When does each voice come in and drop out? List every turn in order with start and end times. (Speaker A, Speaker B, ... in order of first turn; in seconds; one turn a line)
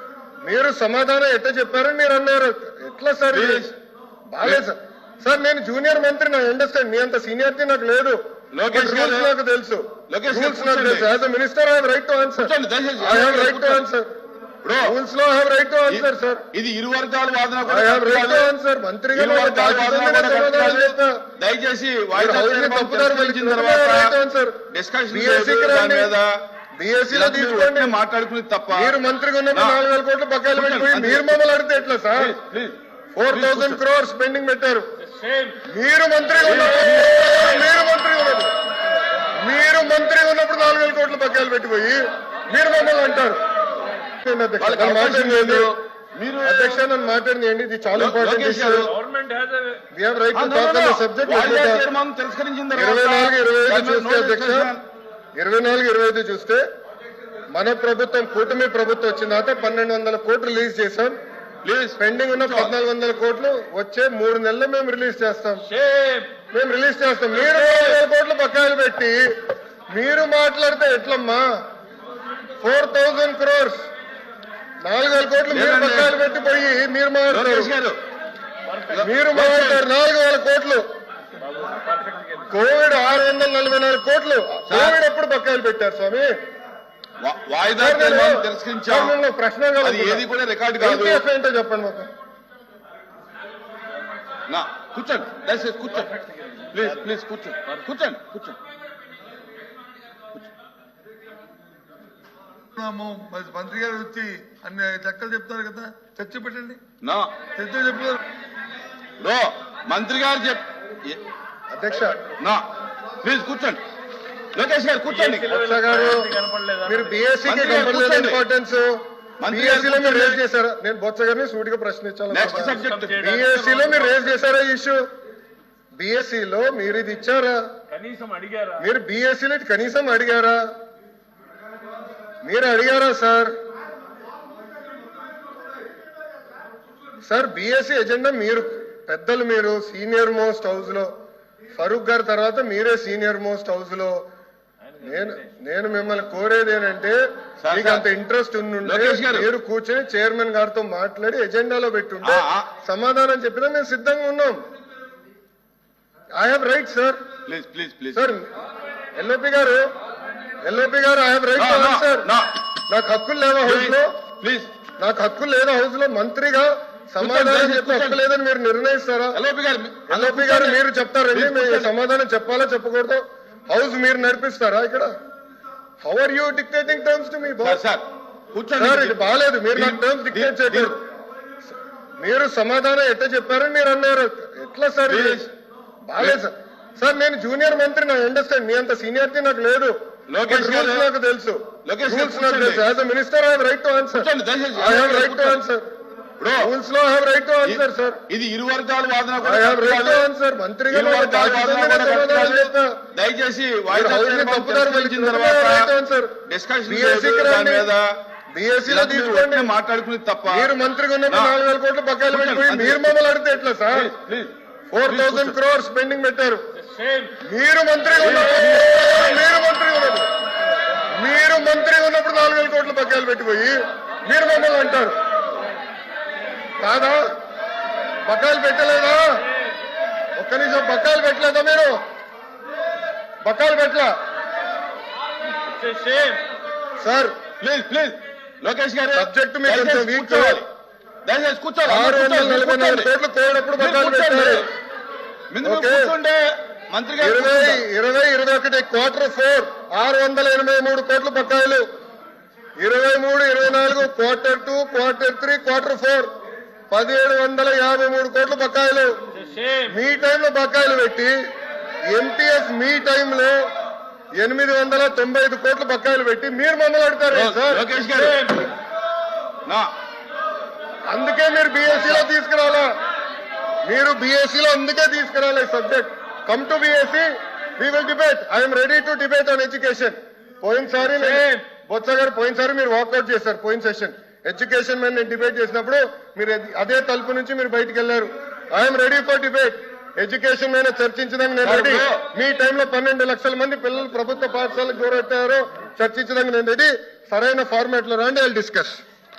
Speaker A: 0.5-3.7
Speaker B: 3.3-3.7
Speaker A: 4.3-8.2
Speaker B: 8.5-9.3
Speaker A: 8.7-14.1
Speaker B: 10.1-11.2
Speaker B: 12.4-13.9
Speaker B: 14.6-14.9
Speaker A: 14.8-16.4
Speaker B: 15.9-18.5
Speaker A: 17.6-21.2
Speaker B: 19.1-24.1
Speaker A: 22.1-24.6
Speaker B: 24.7-26.3
Speaker A: 25.1-26.1
Speaker A: 26.8-27.9
Speaker B: 27.1-29.0
Speaker A: 28.7-32.4
Speaker B: 29.5-29.8
Speaker B: 30.5-31.4
Speaker B: 32.2-32.8
Speaker A: 33.1-34.9
Speaker B: 33.3-33.8
Speaker C: 35.0-35.6
Speaker A: 35.6-38.5
Speaker B: 36.4-37.4
Speaker A: 39.4-43.4
Speaker A: 44.2-45.7
Speaker B: 44.6-46.8
Speaker A: 46.4-48.9
Speaker B: 47.9-49.0
Speaker C: 48.9-49.8
Speaker A: 49.9-51.9
Speaker B: 50.3-54.8
Speaker A: 52.7-54.7
Speaker A: 55.4-56.6
Speaker A: 57.5-61.1
Speaker B: 61.6-62.7
Speaker A: 62.0-65.7
Speaker B: 65.8-66.3
Speaker A: 66.5-69.2
Speaker B: 67.4-67.9
Speaker A: 69.9-71.5
Speaker A: 72.6-73.8
Speaker A: 74.8-77.7
Speaker B: 75.5-76.2
Speaker B: 77.3-78.0
Speaker B: 78.9-79.9
Speaker A: 78.9-80.8
Speaker C: 81.5-82.5
Speaker A: 82.5-86.3
Speaker B: 84.7-85.0
Speaker B: 87.2-89.2
Speaker A: 87.8-90.3
Speaker B: 89.8-91.2
Speaker A: 90.8-92.1
Speaker B: 94.5-96.1
Speaker B: 96.7-98.6
Speaker D: 102.7-106.8
Speaker B: 107.0-107.4
Speaker D: 107.5-108.2
Speaker B: 109.2-111.2
Speaker A: 111.7-112.2
Speaker B: 112.4-112.7
Speaker B: 113.2-113.8
Speaker B: 114.5-115.5
Speaker C: 115.1-117.2
Speaker A: 115.5-116.3
Speaker A: 116.8-125.0
Speaker B: 117.5-118.4
Speaker B: 119.4-120.4
Speaker B: 122.3-123.3
Speaker C: 122.7-124.1
Speaker A: 126.0-127.6
Speaker C: 127.9-128.8
Speaker A: 128.8-130.6
Speaker A: 132.4-133.5
Speaker A: 137.2-141.1
Speaker A: 141.8-144.2
Speaker A: 145.0-147.2
Speaker B: 147.6-148.1
Speaker A: 147.7-154.6
Speaker B: 148.8-149.5
Speaker B: 152.2-152.7
Speaker A: 156.4-157.2
Speaker B: 157.5-158.3
Speaker A: 158.1-158.4
Speaker A: 159.2-159.9
Speaker A: 160.6-162.3
Speaker B: 161.6-162.6
Speaker A: 162.9-164.2
Speaker B: 163.7-164.7
Speaker A: 165.0-169.4
Speaker B: 167.2-168.2
Speaker B: 169.3-170.8
Speaker A: 170.1-175.1
Speaker B: 171.3-171.9
Speaker A: 176.0-177.8
Speaker B: 177.6-179.2
Speaker A: 178.8-181.0
Speaker B: 179.7-181.0
Speaker A: 182.2-185.4
Speaker B: 185.1-185.5
Speaker A: 186.1-189.9
Speaker B: 190.3-191.1
Speaker A: 190.5-195.8
Speaker B: 191.8-192.8
Speaker B: 194.1-195.6
Speaker B: 196.4-196.7
Speaker A: 196.6-198.2
Speaker B: 197.7-200.3
Speaker A: 199.4-203.0
Speaker B: 200.9-205.9
Speaker A: 203.9-207.9
Speaker B: 206.5-208.1
Speaker A: 208.6-209.7
Speaker B: 208.9-210.7
Speaker A: 210.5-214.1
Speaker B: 211.3-211.6
Speaker B: 212.3-213.2
Speaker B: 213.9-215.6
Speaker A: 214.9-216.6
Speaker C: 216.8-217.3
Speaker A: 217.4-220.3
Speaker B: 218.2-219.2
Speaker A: 221.2-225.2
Speaker A: 226.8-227.2
Speaker A: 228.3-229.4
Speaker A: 230.4-232.0
Speaker A: 233.4-234.1
Speaker C: 235.6-236.4
Speaker A: 237.0-237.3
Speaker B: 237.6-240.7
Speaker A: 239.2-240.6
Speaker B: 241.2-243.1
Speaker A: 241.8-244.7
Speaker B: 243.8-244.7
Speaker B: 245.5-247.8
Speaker A: 245.6-246.1
Speaker A: 247.2-251.8
Speaker A: 252.8-256.3
Speaker A: 256.9-259.2
Speaker C: 259.3-259.9
Speaker A: 259.9-261.4
Speaker A: 262.1-263.6
Speaker A: 264.4-267.9
Speaker B: 267.3-268.7
Speaker C: 268.2-268.6
Speaker B: 269.7-269.9
Speaker A: 271.1-272.9
Speaker B: 271.9-272.2
Speaker A: 273.9-277.3
Speaker A: 277.8-299.0
Speaker B: 291.6-292.2